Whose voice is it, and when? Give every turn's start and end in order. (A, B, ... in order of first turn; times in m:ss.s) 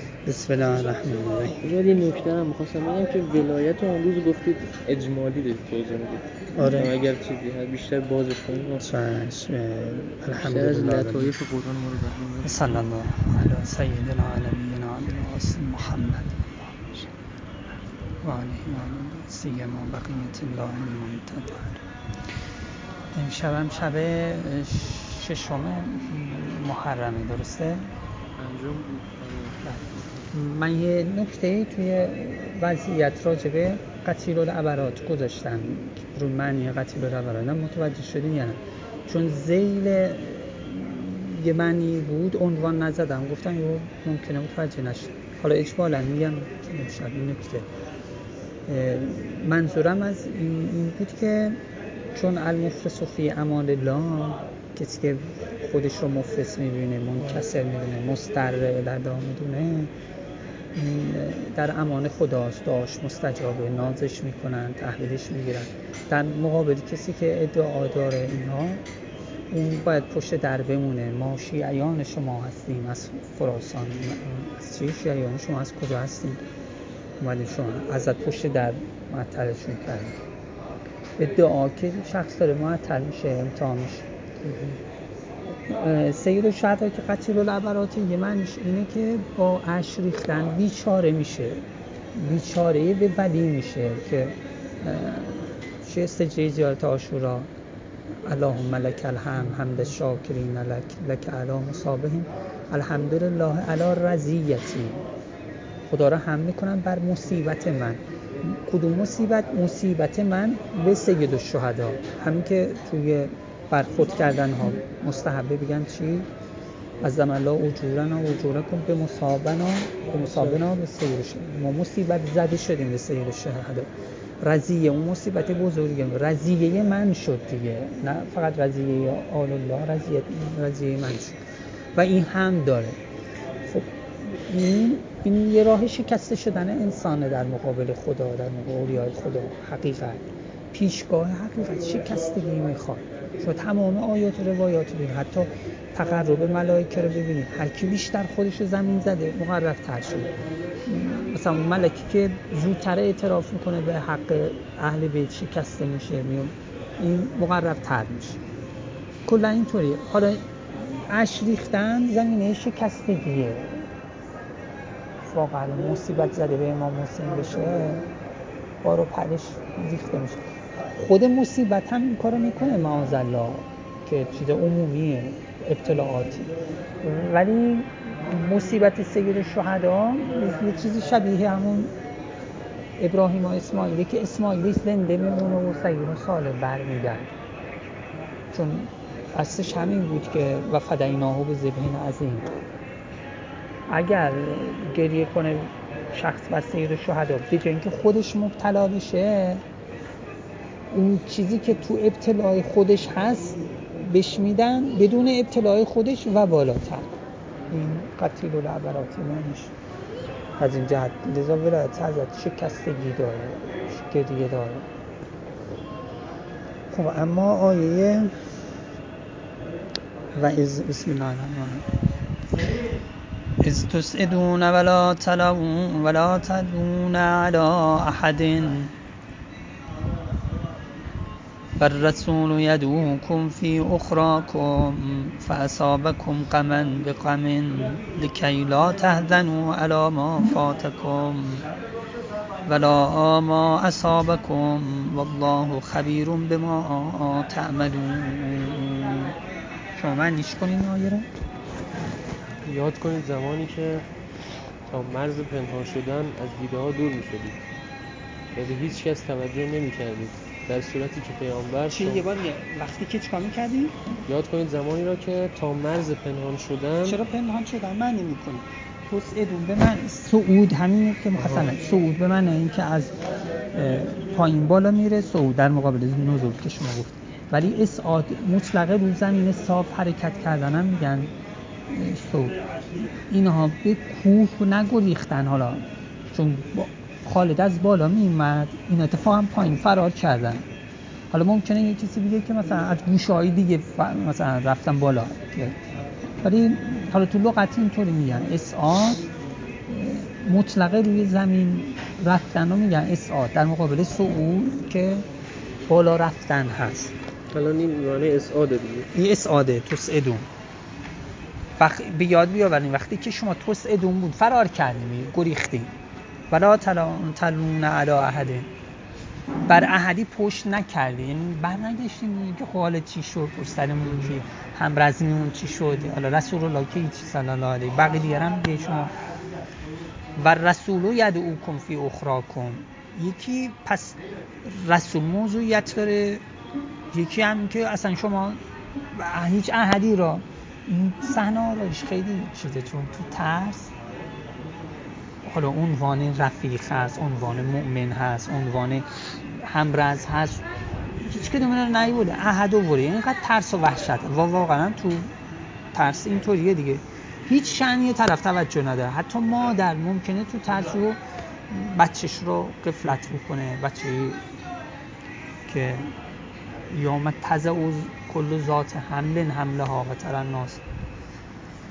0:00.3-0:01.6 A
0:01.6-0:08.9 B
0:06.6-0:06.9 A
0:08.8-0:11.4 A
0:10.4-0:12.8 B
0:12.4-0:16.4 A
0:18.2-0:21.8 A
0:23.1-0:27.9 A
0:28.4-0:29.6 B
0:29.6-0:47.7 A
0:48.7-0:51.6 A
0:52.1-0:59.9 A
1:00.8-1:08.8 A
1:09.5-1:16.4 A
1:17.2-1:20.2 A
1:21.2-1:24.1 A
1:24.4-1:24.8 B
1:25.7-1:37.5 A
1:38.2-1:45.0 A
1:45.9-1:56.3 A
1:57.0-2:03.9 A
2:04.4-2:11.4 A
2:12.0-2:13.0 A
2:13.7-2:38.4 A
2:39.3-2:43.9 A
2:45.3-2:48.1 A
2:48.8-2:56.5 A
2:57.0-3:01.9 A
3:03.0-3:07.3 A
3:08.5-3:12.5 A
3:13.9-3:19.6 A
3:20.9-3:27.1 A
3:27.7-3:29.7 A
3:30.6-3:34.9 A
3:36.9-3:38.4 A
3:40.4-3:41.9 A
3:43.6-3:48.9 A
3:51.8-4:01.7 A
4:02.7-4:09.4 A
4:10.0-4:11.3 A
4:12.7-4:14.0 B
4:14.9-4:17.6 B
4:18.6-4:22.2 B
4:21.9-4:24.0 A
4:24.3-4:27.2 B
4:27.0-4:33.1 A
4:33.7-4:41.3 A
4:41.9-4:42.6 A
4:43.2-4:50.7 A
4:51.3-4:55.8 A
4:56.4-4:59.3 A
4:59.9-5:05.3 A
5:05.9-5:07.2 A
5:07.5-5:09.1 B
5:09.1-5:10.5 A
5:11.8-5:15.9 A
5:16.5-5:18.7 A
5:19.6-5:29.1 A
5:30.4-5:36.4 A
5:37.1-5:38.6 A
5:39.1-5:43.9 A
5:45.4-5:50.7 A
5:51.2-5:55.3 A
5:55.9-6:04.4 A
6:05.7-6:06.1 A
6:06.9-6:10.8 A